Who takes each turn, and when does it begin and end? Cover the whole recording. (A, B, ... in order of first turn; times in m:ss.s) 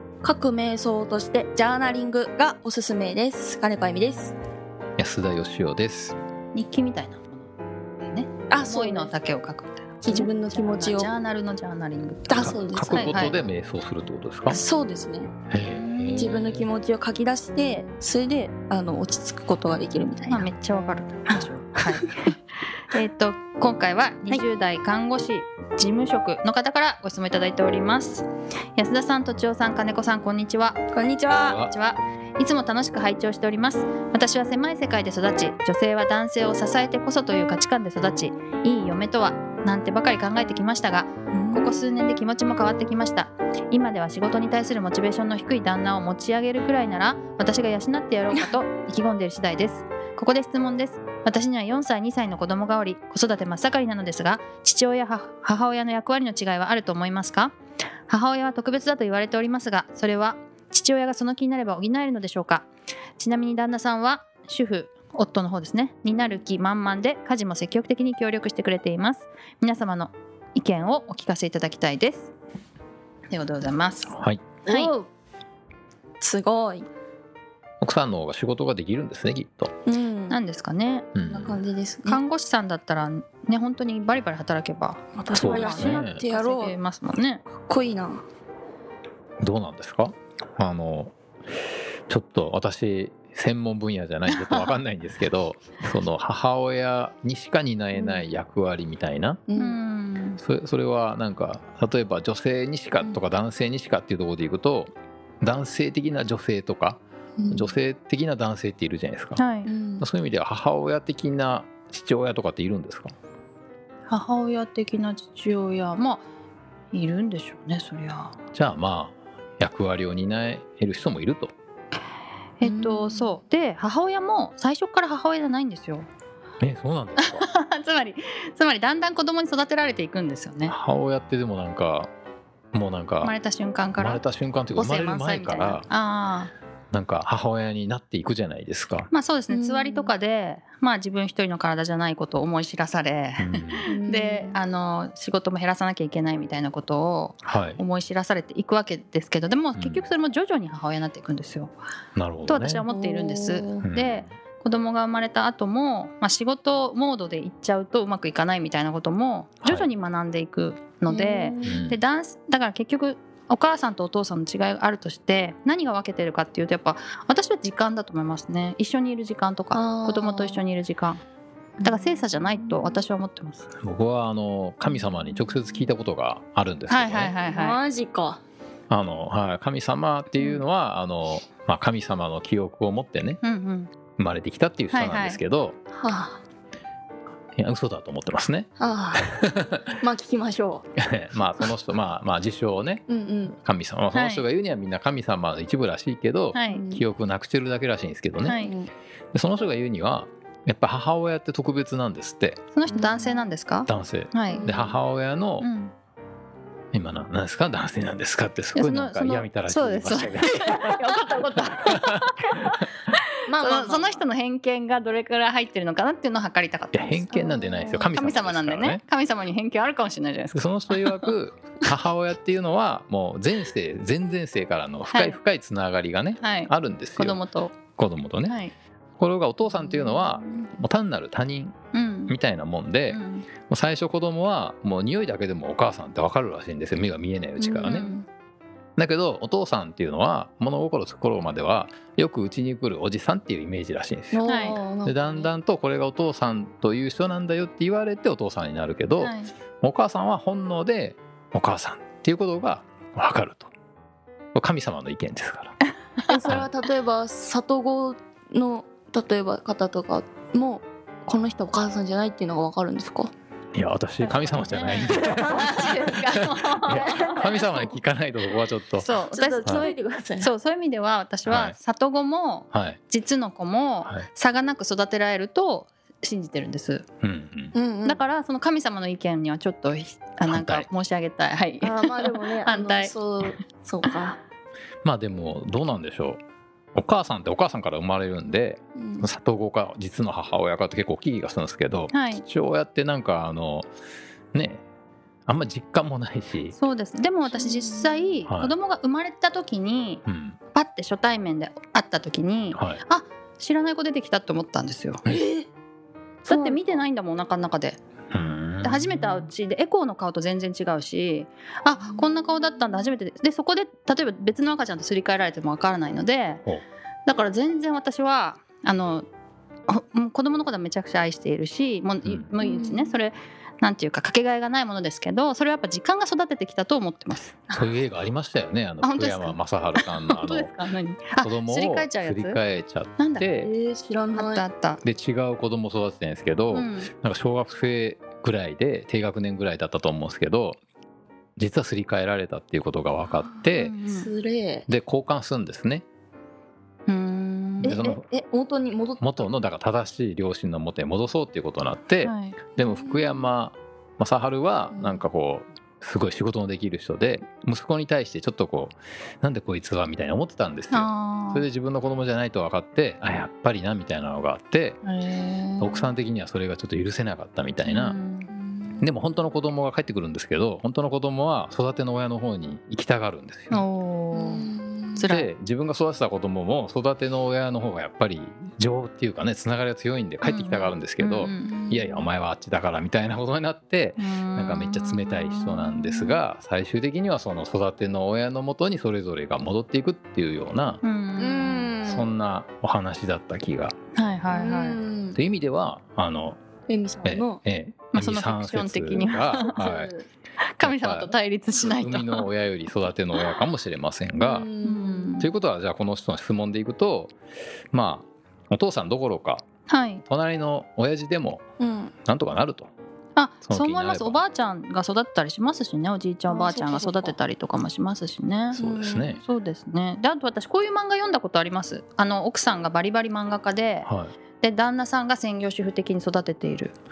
0:00.2-0:04.4 A
0:05.0-0:06.2 B
0:06.5-0:07.5 C
0:08.0-0:13.4 C
0:08.5-0:09.1 A
0:10.0-0:11.1 A
0:12.3-0:13.3 A
0:12.4-0:14.6 B
0:14.5-0:15.3 A
0:15.5-0:16.6 B
0:15.6-0:16.3 C
0:16.2-0:20.5 A
0:20.3-0:22.4 C
0:22.9-0:30.8 C
0:30.9-0:31.6 A
0:31.4-0:31.7 B
0:31.6-0:57.6 C
0:41.3-0:41.8 A
0:58.1-1:02.7 C
1:03.2-1:12.3 C
1:13.3-1:15.0 C
1:14.1-1:14.4 B
1:14.7-1:15.1 A
1:16.2-1:16.9 A
1:17.8-1:19.7 B
1:19.9-1:20.4 A
1:20.3-1:21.1 C
1:21.2-1:21.6 B
1:21.2-1:22.2 A
1:22.1-1:27.4 C
1:25.2-1:26.8 A
1:25.3-1:26.2 B
1:27.5-1:28.2 A
1:29.4-1:31.2 B
1:32.1-1:39.4 B
1:34.3-1:34.8 C
1:37.9-1:38.3 A
1:39.5-1:39.8 A
1:39.6-1:40.4 C
1:40.4-1:44.9 B
1:45.4-1:47.0 B
1:47.4-1:47.8 A
1:47.5-1:49.4 B
1:49.4-1:49.7 C
1:49.7-1:50.0 A
1:50.0-1:53.1 B
1:54.1-1:56.2 C
1:56.9-1:58.4 C
1:58.5-2:01.5 B
2:02.6-2:06.1 C
2:02.6-2:03.3 A
2:06.6-2:07.4 B
2:07.2-2:10.8 C
2:10.7-2:12.1 B
2:12.7-2:13.3 B
2:13.2-2:14.2 C
2:14.0-2:15.9 B
2:14.7-2:16.5 C
2:16.9-2:19.1 B
2:19.1-2:31.7 C
2:19.5-2:20.1 A
2:23.4-2:23.9 B
2:23.9-2:24.6 A
2:27.4-2:27.8 B
2:29.8-2:30.0 B
2:32.2-2:32.8 B
2:32.5-2:51.2 C
2:32.9-2:33.9 A
2:33.8-2:34.3 B
2:39.6-2:39.9 B
2:41.1-2:41.8 A
2:41.6-2:42.0 B
2:49.7-2:50.6 A
2:51.8-2:53.0 A
2:51.8-2:53.7 C
2:53.8-2:57.4 B
2:54.9-2:55.4 A
2:56.9-2:57.8 C
2:57.5-2:58.4 A
2:58.9-3:03.4 B
3:03.4-3:03.9 C
3:04.2-3:05.8 B
3:04.9-3:05.4 C
3:05.9-3:06.4 A
3:07.6-3:09.8 B
3:08.8-3:10.9 A
3:11.0-3:13.0 B
3:13.1-3:13.6 A
3:13.6-3:18.6 B
3:14.1-3:14.4 C
3:16.5-3:16.8 C
3:16.7-3:17.0 A
3:18.4-3:18.8 C
3:18.6-3:18.9 A
3:19.3-3:22.6 B
3:22.7-3:24.6 C
3:22.9-3:23.5 A
3:23.9-3:25.7 B
3:24.5-3:25.0 A
3:25.6-3:25.9 C
3:26.9-3:31.0 B
3:28.8-3:37.4 C
3:33.5-3:34.2 A
3:36.9-3:39.0 B
3:37.3-3:38.1 A
3:38.1-3:41.3 C
3:40.5-3:47.4 B
3:45.1-3:45.4 C
3:46.4-3:47.7 C
3:48.0-3:48.6 B
3:48.5-3:48.7 C
3:49.2-3:51.8 B
3:49.7-3:50.6 A
3:51.9-3:52.3 C
3:52.3-3:58.1 B
3:53.1-3:53.5 C
3:57.6-3:58.2 A
3:57.8-3:58.2 C
3:59.0-4:13.7 B
4:04.3-4:05.5 A
4:04.5-4:04.8 C
4:09.2-4:09.5 C
4:14.5-4:15.8 B
4:16.2-4:16.5 C
4:16.3-4:23.3 A
4:23.8-4:29.1 B
4:24.5-4:27.5 C
4:25.2-4:26.1 A
4:26.9-4:27.7 A
4:29.0-4:37.0 C
4:29.3-4:30.5 A
4:31.5-4:31.8 B
4:32.7-4:33.0 B
4:37.2-4:37.7 B
4:37.7-4:38.2 A
4:38.0-4:43.6 C
4:40.5-4:40.9 B
4:41.8-4:44.4 A
4:45.0-4:46.4 B
4:47.0-4:53.9 B
4:49.0-4:49.3 A
4:52.1-4:52.4 C
4:54.5-4:54.8 B
4:55.5-4:56.8 B
4:56.7-5:00.2 C
4:57.5-4:58.3 A
4:58.5-4:58.7 B
5:00.3-5:00.6 B
5:00.7-5:05.2 C
5:02.7-5:03.0 B
5:05.2-5:05.7 A
5:06.4-5:08.0 C
5:06.5-5:07.0 A
5:08.3-5:09.5 B
5:08.8-5:16.6 C
5:17.3-5:19.3 C
5:19.9-5:27.7 C
5:22.2-5:22.5 B
5:22.6-5:23.2 A
5:27.7-5:30.7 B
5:29.0-5:32.6 C
5:31.4-5:33.7 B
5:33.2-5:33.5 C
5:33.6-5:34.6 A
5:34.3-5:35.0 C
5:35.0-5:40.8 B
5:36.7-5:37.1 C
5:41.6-5:44.0 B
5:43.7-5:44.3 C
5:44.1-5:44.9 A
5:44.9-5:46.0 B
5:47.1-5:48.0 C
5:47.8-5:48.2 B
5:47.8-5:49.2 A
5:49.2-6:05.0 B
5:52.2-5:52.6 C
5:52.8-5:53.5 A
5:54.9-5:55.2 A
6:00.9-6:01.7 C
6:05.0-6:06.1 C
6:05.8-6:08.2 B
6:07.8-6:08.5 C
6:08.5-6:09.0 A
6:09.0-6:13.8 B
6:13.7-6:15.5 C
6:14.3-6:15.2 A
6:15.2-6:31.0 B
6:20.4-6:21.8 C
6:21.5-6:22.3 A
6:24.2-6:26.4 C
6:31.0-6:31.9 C
6:31.4-6:32.3 A
6:32.0-6:34.0 B
6:34.2-6:35.0 C
6:34.5-6:35.4 A
6:35.4-6:36.6 B
6:36.9-6:37.6 A
6:37.2-6:40.1 B
6:38.1-6:39.7 C
6:39.5-6:40.3 A
6:40.8-6:42.5 C
6:40.8-6:44.7 B
6:44.4-6:45.5 A
6:44.8-6:45.5 C
6:45.4-6:47.3 B
6:47.9-6:49.7 B
6:49.9-6:50.2 C
6:50.2-6:51.6 B
6:51.8-6:52.1 A
6:52.3-6:52.9 B
6:53.4-6:58.8 C
6:53.7-6:54.4 B
6:56.5-6:57.4 A
6:58.7-6:59.4 B
6:58.8-6:59.4 A
6:59.4-7:04.1 C
7:04.0-7:04.3 B
7:04.6-7:06.9 C